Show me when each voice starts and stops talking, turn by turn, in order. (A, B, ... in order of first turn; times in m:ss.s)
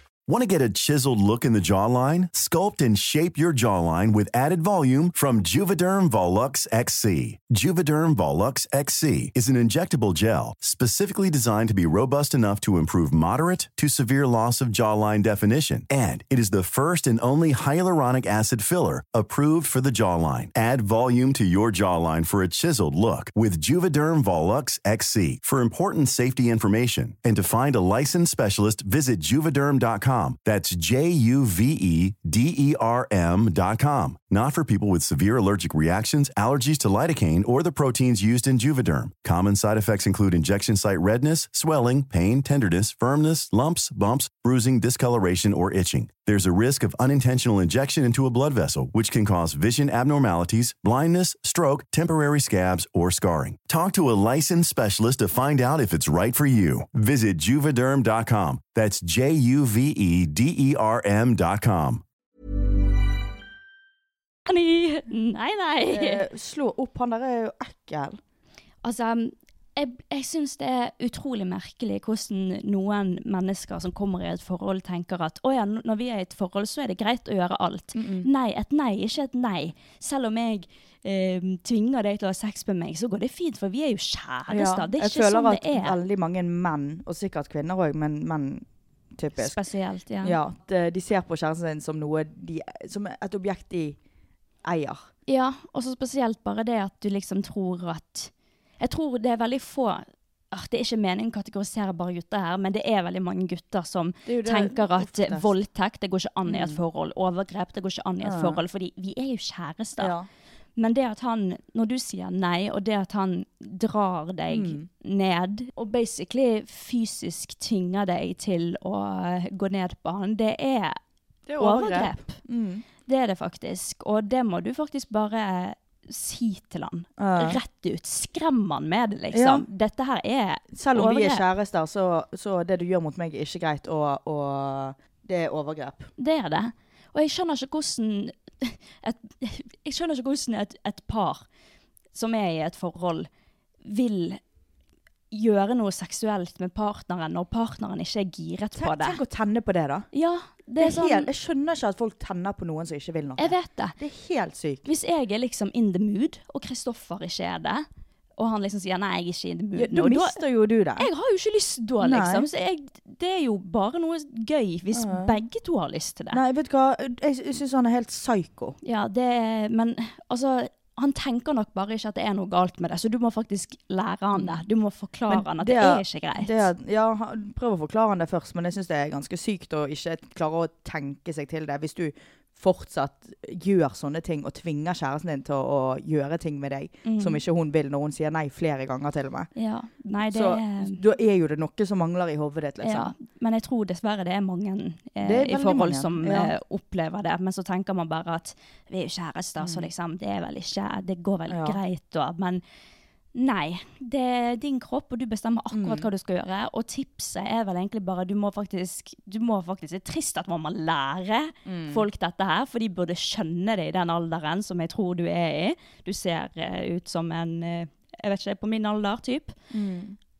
0:00.3-1:02.0 A
1:04.5-1:06.2 B
1:05.9-1:08.2 C
1:08.8-1:26.0 B
1:17.9-1:18.3 C
1:24.5-1:29.6 C
1:29.4-1:30.4 B
1:30.2-1:34.0 C
1:34.6-1:35.1 C
1:35.3-1:50.1 B
1:44.2-1:45.5 C
1:46.5-1:46.8 C
1:48.2-1:48.6 C
1:50.0-1:50.3 C
1:50.8-2:01.0 B
1:54.5-1:54.9 C
2:01.5-2:02.8 C
2:01.6-2:02.4 B
2:03.0-2:11.4 B
2:07.2-2:07.6 C
2:09.3-2:09.6 C
2:10.7-2:16.1 C
2:16.2-2:21.4 B
2:22.1-2:23.3 B
2:23.8-2:24.4 B
2:25.3-2:29.2 B
2:28.8-2:30.1 C
2:30.1-2:31.3 B
2:30.8-2:34.8 C
2:33.4-2:34.0 B
2:34.8-2:37.8 B
2:38.4-2:40.4 B
2:39.8-2:41.1 C
2:41.0-2:46.4 B
2:42.0-2:42.5 C
2:44.9-2:45.4 C
2:46.3-2:48.8 C
2:48.8-2:56.7 B
2:54.3-2:54.6 C
2:55.3-3:09.5 C
3:07.0-3:07.4 B
3:09.6-3:11.0 B
3:10.3-3:13.1 C
3:12.8-3:22.6 B
3:15.2-3:16.5 C
3:19.6-3:19.9 C
3:21.5-3:21.8 C
3:23.3-3:39.5 B
3:25.7-3:26.1 C
3:31.6-3:32.0 C
3:39.7-3:40.2 C